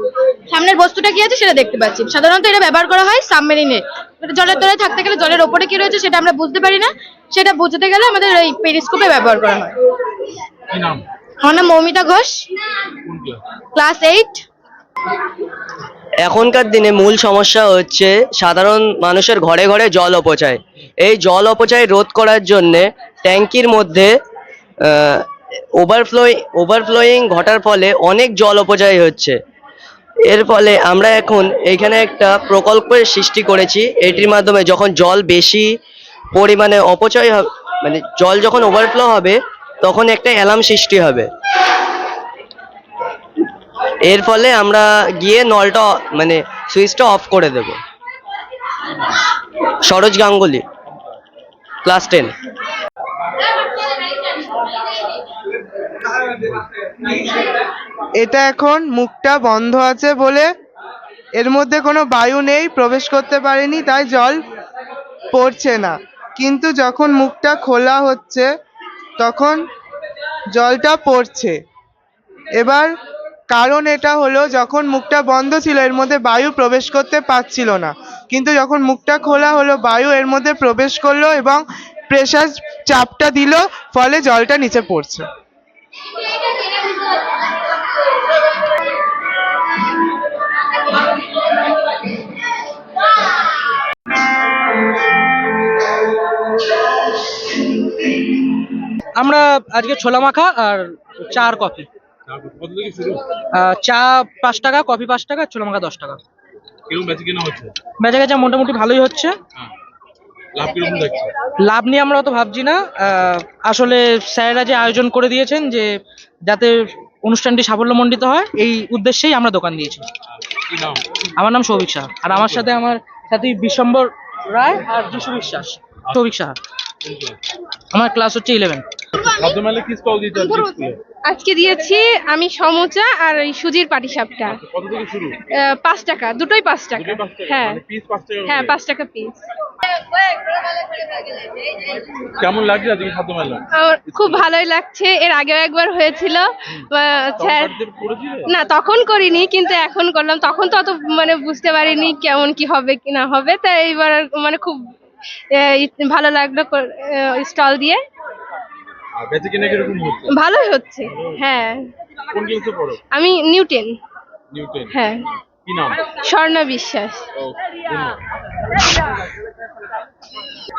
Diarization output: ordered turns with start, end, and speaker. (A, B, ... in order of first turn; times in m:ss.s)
0:00.5-0:09.7 A
0:10.7-0:11.0 B
0:11.4-0:12.4 A
0:13.0-0:13.4 B
0:13.8-0:14.4 A
0:16.2-0:24.1 C
0:25.8-0:29.3 C
0:30.3-0:35.6 C
0:36.4-0:41.3 C
0:44.1-0:47.8 C
0:49.9-0:50.6 C
0:51.8-0:52.3 C
0:58.2-1:00.5 D
1:01.4-1:04.4 D
1:05.3-1:08.5 D
1:09.2-1:09.6 D
1:10.5-1:11.6 D
1:12.6-1:12.9 D
1:13.5-1:25.3 D
1:39.2-1:41.9 E
1:42.3-1:43.2 B
1:43.5-1:46.2 E
1:46.9-1:47.8 B
1:48.0-1:49.4 E
1:50.6-1:51.3 B
1:51.6-1:56.0 E
1:56.5-2:00.1 E
2:00.5-2:01.1 B
2:01.4-2:06.6 E
2:02.4-2:02.7 B
2:07.0-2:07.4 B
2:07.9-2:08.8 E
2:09.3-2:11.0 B
2:11.3-2:14.6 F
2:14.5-2:15.4 B
2:15.5-2:17.8 F
2:16.9-2:18.8 B
2:18.4-2:19.4 F
2:22.4-2:24.5 B
2:23.8-2:27.8 F
2:27.4-2:28.5 B
2:28.5-2:34.8 F
2:35.5-2:38.0 F
2:39.2-2:40.4 B
2:40.3-2:41.9 F
2:42.3-2:43.0 B
2:43.1-2:43.9 F
2:44.5-2:44.9 B
2:44.9-2:45.2 F
2:45.7-2:46.1 B
2:46.2-2:47.2 F
2:47.4-2:48.2 B